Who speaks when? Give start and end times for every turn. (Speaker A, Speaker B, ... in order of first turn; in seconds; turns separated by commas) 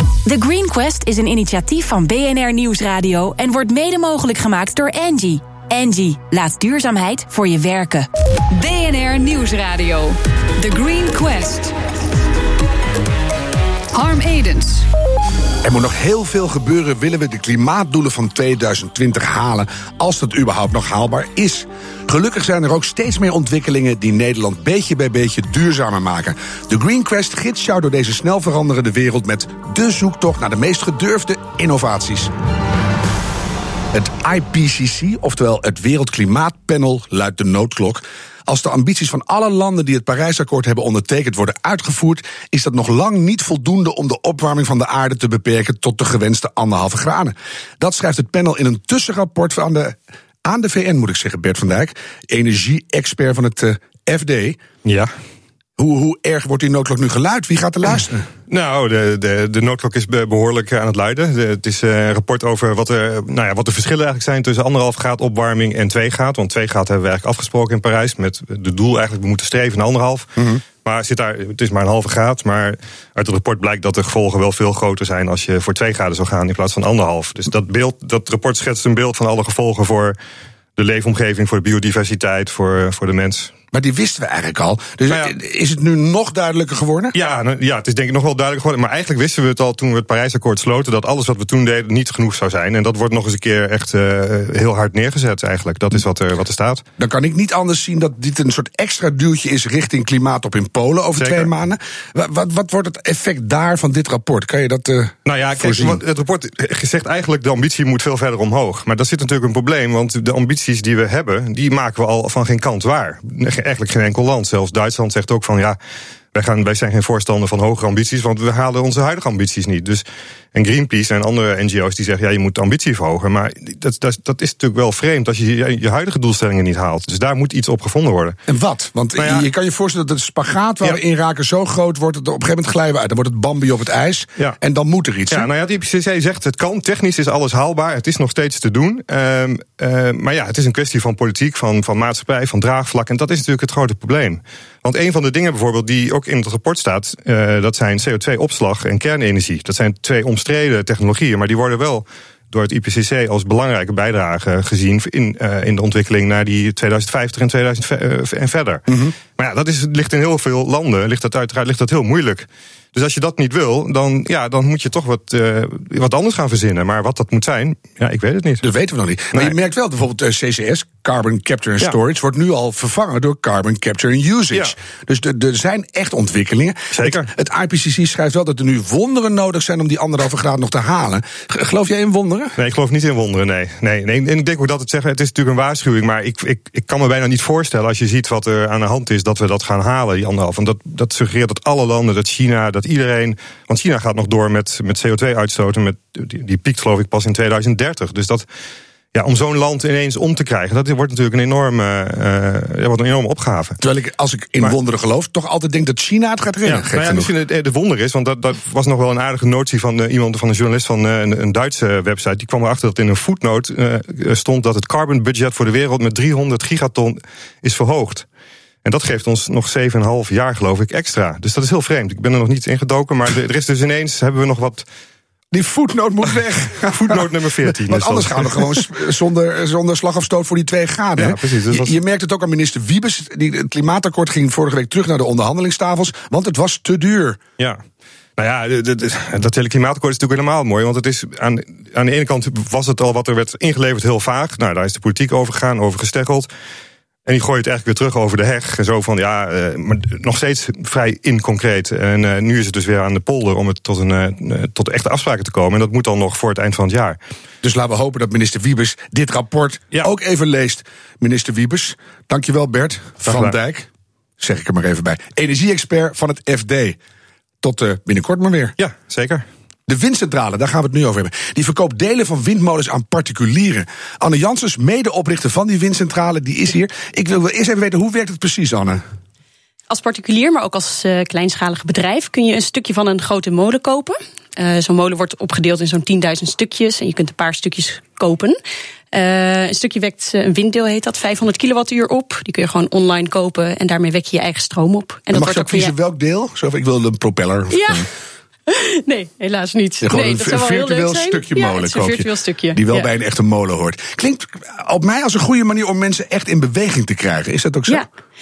Speaker A: 0.2-8.1, Speaker B: 8.5-11.7, Speaker B: 13.9-14.8, Speaker C: 15.6-32.3, Speaker C: 33.9-54.6, Speaker C: 55.8-58.2, Speaker D: 58.5-70.3, Speaker C: 70.4-70.6, Speaker D: 70.8-80.2, Speaker D: 80.8-83.5, Speaker C: 83.7-87.1, Speaker D: 87.1-96.8, Speaker C: 97.0-106.0, Speaker D: 101.2-101.5, Speaker D: 105.2-115.8, Speaker D: 116.3-128.3, Speaker C: 128.5-135.5, Speaker D: 129.2-129.5, Speaker D: 135.3-168.6, Speaker C: 158.9-159.1, Speaker C: 168.6-182.5, Speaker D: 176.9-177.3, Speaker D: 182.6-198.5, Speaker D: 199.1-203.8, Speaker C: 203.8-207.3, Speaker D: 206.6-218.2, Speaker D: 218.8-224.8, Speaker C: 225.5-237.4, Speaker D: 226.9-228.8, Speaker D: 231.2-232.0, Speaker D: 238.4-246.5, Speaker D: 247.2-257.2, Speaker C: 257.6-263.9, Speaker D: 263.2-263.5, Speaker C: 264.4-267.0, Speaker C: 267.6-268.7, Speaker D: 268.8-269.4, Speaker C: 269.9-279.0, Speaker E: 279.9-288.6, Speaker E: 289.1-295.9, Speaker C: 295.3-298.1, Speaker E: 297.7-298.1, Speaker E: 298.7-303.1, Speaker C: 300.0-308.0